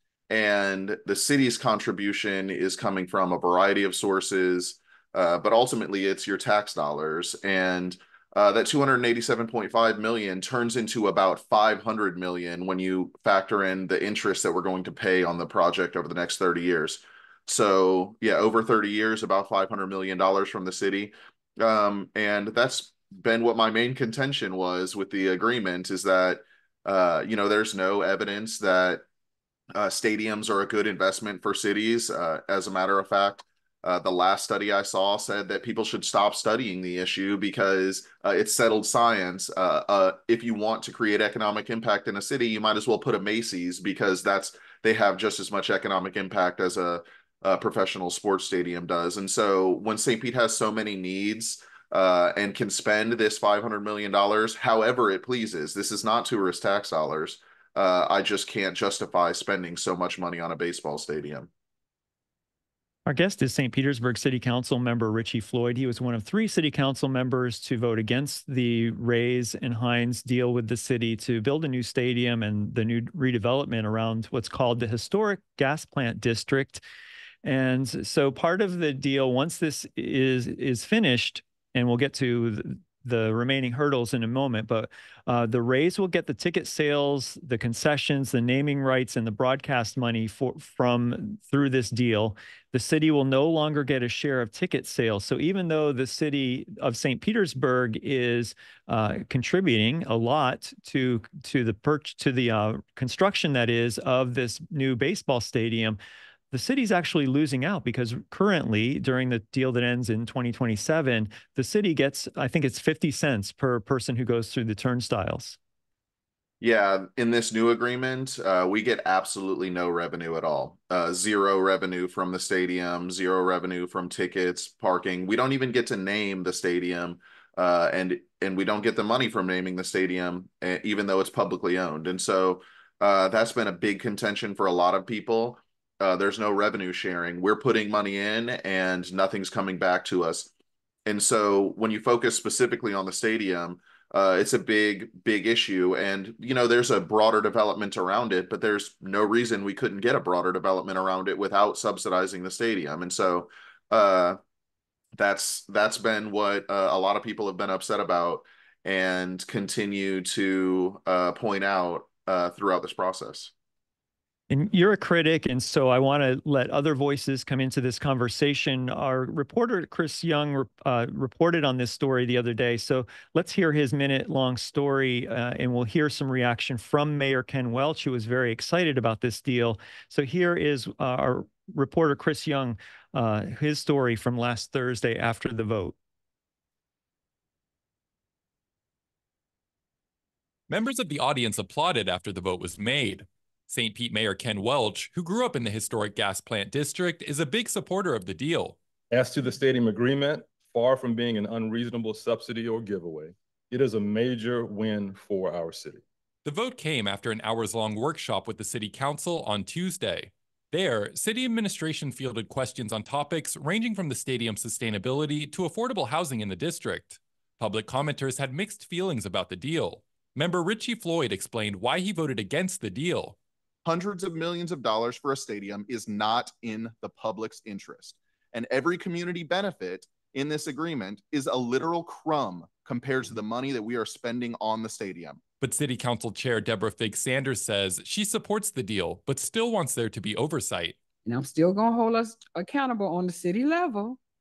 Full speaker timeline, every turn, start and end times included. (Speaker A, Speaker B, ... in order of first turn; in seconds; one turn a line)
Speaker A: 0.3-29.0
Speaker A: 29.7-61.5
Speaker B: 63.0-76.8
Speaker B: 77.4-106.0
Speaker B: 106.5-115.6
Speaker A: 116.6-140.5
Speaker A: 141.1-154.4
Speaker A: 155.2-163.5
Speaker B: 164.5-185.9
Speaker C: 190.7-198.8
Speaker D: 199.1-206.0
Speaker C: 206.4-223.3
Speaker A: 223.8-235.4
Speaker C: 235.6-240.9
Speaker E: 241.2-244.2